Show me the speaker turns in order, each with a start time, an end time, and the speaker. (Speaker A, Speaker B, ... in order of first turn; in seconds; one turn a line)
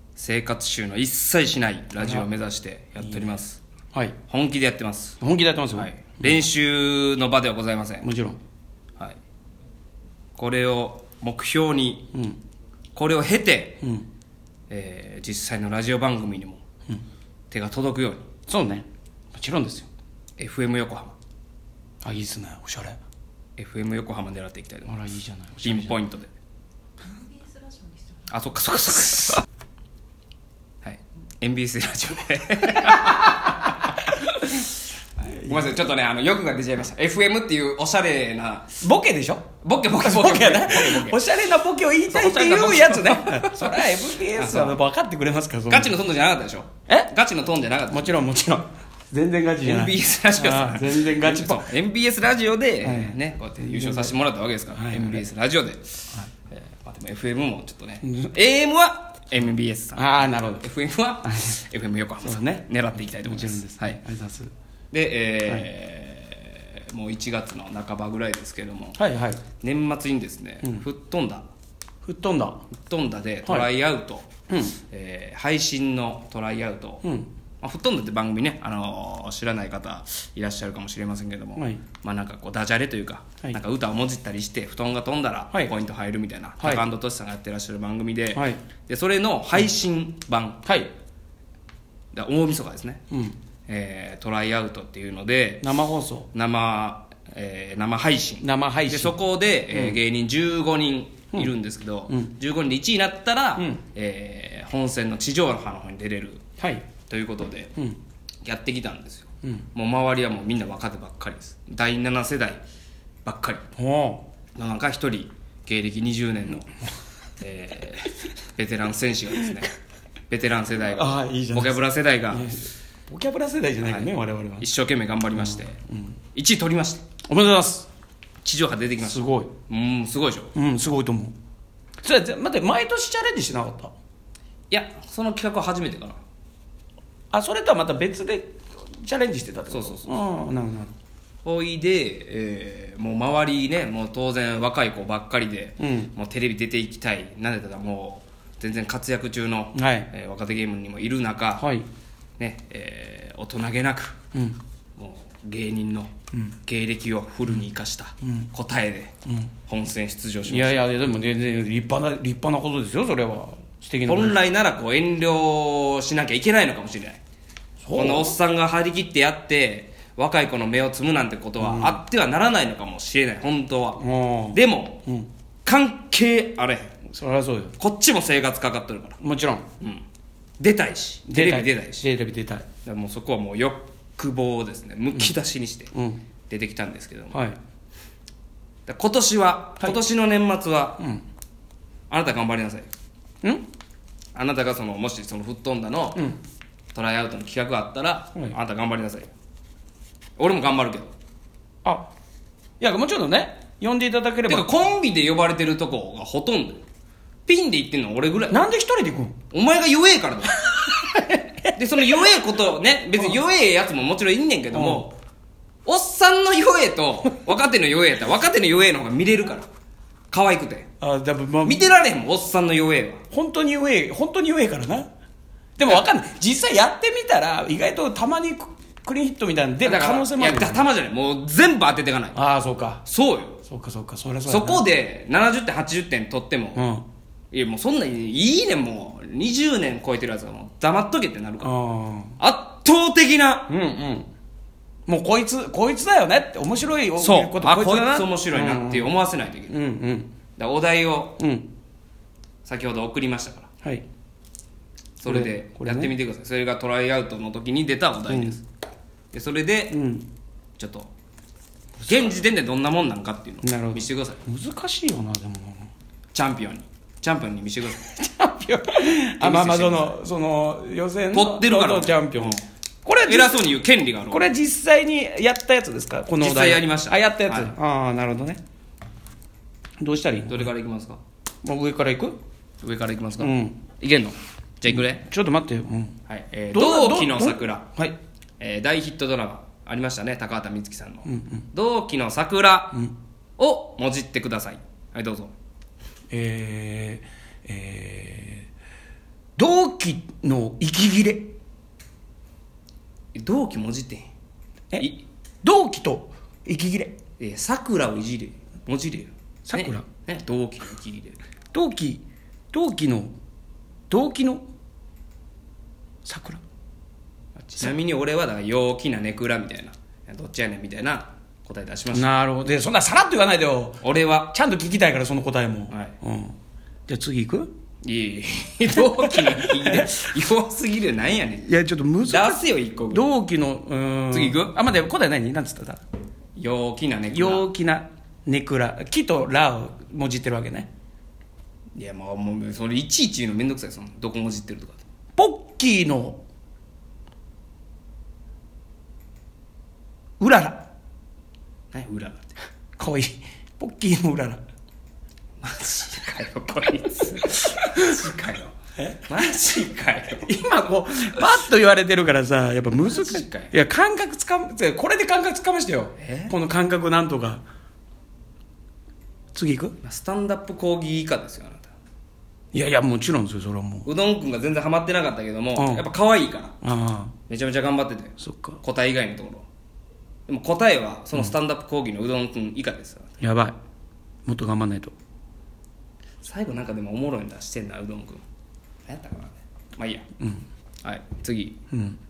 Speaker A: 0.2-3.6
Speaker B: 2.0-2.3
Speaker B: 3.0-3.3
Speaker A: 4.3-5.2
Speaker B: 5.2-6.4
Speaker A: 5.8-8.1
Speaker B: 8.0-8.4
Speaker A: 10.4-12.1
Speaker A: 12.9-13.8
Speaker A: 14.7-16.6
Speaker A: 17.5-18.3
Speaker B: 18.5-19.9
Speaker A: 20.4-21.1
Speaker B: 22.0-23.0
Speaker A: 23.6-25.0
Speaker B: 24.9-26.0
Speaker A: 25.6-26.3
Speaker A: 28.3-29.4
Speaker A: 30.8-33.6
Speaker B: 33.0-34.3
Speaker A: 35.2-38.8
Speaker B: 35.3-35.8
Speaker B: 38.8-39.5
Speaker A: 39.6-41.2
Speaker B: 40.0-45.9
Speaker A: 42.1-44.8
Speaker A: 45.7-48.1
Speaker B: 47.9-51.7
Speaker A: 49.6-64.0
Speaker B: 52.8-54.2
Speaker B: 54.7-55.2
Speaker B: 58.0-58.3
Speaker B: 60.0-60.7
Speaker B: 62.2-64.5
Speaker A: 64.9-69.0
Speaker B: 69.0-69.4
Speaker A: 69.6-71.5
Speaker B: 72.0-72.6
Speaker A: 72.9-74.3
Speaker B: 73.5-73.7
Speaker B: 74.5-74.8
Speaker A: 74.9-77.0
Speaker B: 77.0-77.3
Speaker A: 77.6-90.6
Speaker B: 81.6-81.8
Speaker B: 86.6-86.8
Speaker B: 88.3-88.6
Speaker B: 90.7-90.9
Speaker A: 92.1-93.0
Speaker B: 93.1-93.4
Speaker A: 93.7-95.7
Speaker B: 95.6-96.3
Speaker A: 96.3-106.4
Speaker B: 98.4-99.2
Speaker B: 99.7-100.0
Speaker B: 102.1-102.3
Speaker B: 103.6-103.8
Speaker B: 106.6-106.9
Speaker A: 107.1-107.7
Speaker A: 108.4-112.6
Speaker A: 113.2-113.6
Speaker B: 113.8-114.3
Speaker A: 114.6-116.7
Speaker A: 117.4-119.7
Speaker A: 120.3-122.6
Speaker B: 120.9-124.7
Speaker A: 123.8-125.8
Speaker B: 125.3-126.2
Speaker A: 126.3-127.0
Speaker B: 127.3-127.9
Speaker A: 128.4-130.5
Speaker B: 129.0-129.5
Speaker B: 130.6-131.3
Speaker B: 132.0-133.9
Speaker A: 134.7-136.2
Speaker B: 137.3-140.9
Speaker A: 139.7-140.1
Speaker A: 141.4-151.7
Speaker B: 145.8-146.1
Speaker B: 149.8-150.1
Speaker B: 151.6-151.9
Speaker A: 152.4-154.2
Speaker A: 155.0-156.1
Speaker A: 156.7-159.1
Speaker A: 159.7-160.8
Speaker B: 160.5-164.4
Speaker A: 164.1-167.2
Speaker B: 167.8-168.3
Speaker A: 167.9-175.0
Speaker B: 171.6-172.0
Speaker B: 174.0-175.3
Speaker A: 175.7-176.9
Speaker B: 177.1-177.7
Speaker A: 177.8-179.2
Speaker B: 179.2-179.7
Speaker A: 180.6-182.1
Speaker B: 181.3-182.7
Speaker A: 182.8-185.9
Speaker B: 185.9-186.2
Speaker A: 186.5-187.4
Speaker A: 188.9-191.0
Speaker B: 191.0-191.2
Speaker A: 192.1-192.9
Speaker A: 194.3-196.3
Speaker A: 196.9-199.3
Speaker A: 200.4-201.1
Speaker B: 201.8-202.1
Speaker B: 202.8-204.7
Speaker A: 204.5-206.8
Speaker A: 207.5-208.6
Speaker B: 208.5-209.3
Speaker A: 209.5-210.7
Speaker B: 210.7-212.2
Speaker A: 211.7-215.2
Speaker B: 214.7-215.1
Speaker A: 215.9-219.7
Speaker A: 220.3-220.9
Speaker B: 221.0-221.9
Speaker A: 221.6-223.2
Speaker B: 223.3-225.1
Speaker B: 225.8-230.9
Speaker A: 229.8-232.4
Speaker B: 232.3-233.0
Speaker A: 233.0-233.6
Speaker B: 233.7-234.9
Speaker A: 234.5-236.8
Speaker B: 236.8-237.1
Speaker A: 237.5-241.7
Speaker B: 241.6-242.4
Speaker A: 242.4-243.7
Speaker B: 243.7-244.3
Speaker B: 245.1-249.1
Speaker A: 247.2-249.8
Speaker B: 249.7-250.3
Speaker A: 250.6-251.4
Speaker B: 251.4-251.7
Speaker A: 252.7-253.7
Speaker A: 255.2-258.6
Speaker B: 255.2-256.1
Speaker B: 258.3-258.6
Speaker A: 259.3-260.0
Speaker B: 259.9-260.3
Speaker A: 260.8-261.1
Speaker B: 262.0-262.4
Speaker A: 262.1-264.4
Speaker B: 263.6-265.9
Speaker A: 266.3-268.1
Speaker B: 268.0-273.7
Speaker A: 269.4-270.1
Speaker A: 271.3-272.6
Speaker A: 273.2-274.5
Speaker B: 274.3-278.6
Speaker A: 276.4-277.7
Speaker B: 280.0-280.7
Speaker A: 280.5-281.2
Speaker B: 281.6-282.4
Speaker A: 282.8-285.2
Speaker B: 283.4-283.8
Speaker B: 284.9-286.2
Speaker A: 286.3-287.9
Speaker B: 286.7-288.2
Speaker A: 288.6-293.0
Speaker B: 291.2-291.7
Speaker A: 293.6-295.5
Speaker B: 296.3-298.7
Speaker B: 299.6-301.6
Speaker A: 303.3-304.3
Speaker A: 305.0-305.2
Speaker B: 305.6-307.2
Speaker A: 307.4-311.4
Speaker B: 309.7-310.1
Speaker B: 311.7-313.3
Speaker B: 314.1-314.6
Speaker B: 316.2-316.6
Speaker B: 317.6-317.9
Speaker A: 317.8-322.3
Speaker B: 322.1-326.6
Speaker A: 324.0-324.5
Speaker B: 327.1-327.7
Speaker A: 328.0-331.7
Speaker B: 328.9-330.1
Speaker B: 331.6-336.0
Speaker A: 332.3-333.3
Speaker A: 334.3-334.7
Speaker A: 336.6-337.7
Speaker B: 337.3-340.9
Speaker A: 342.0-345.0
Speaker B: 345.4-346.4
Speaker B: 350.4-350.9
Speaker A: 351.9-352.6
Speaker B: 353.0-354.6
Speaker A: 355.6-358.8
Speaker B: 359.0-359.6
Speaker A: 359.3-360.5
Speaker B: 360.4-367.6
Speaker A: 362.9-363.7
Speaker A: 366.2-366.5
Speaker B: 369.5-370.0
Speaker A: 370.0-371.9
Speaker B: 372.7-374.1
Speaker A: 374.1-376.8
Speaker B: 375.8-376.1
Speaker B: 376.8-377.3
Speaker A: 377.5-379.6
Speaker B: 378.4-378.8
Speaker A: 380.5-383.3
Speaker B: 383.4-383.8
Speaker B: 384.5-385.1
Speaker A: 386.4-388.4
Speaker A: 389.1-390.2
Speaker B: 390.4-390.6
Speaker A: 391.0-391.8
Speaker B: 391.9-392.2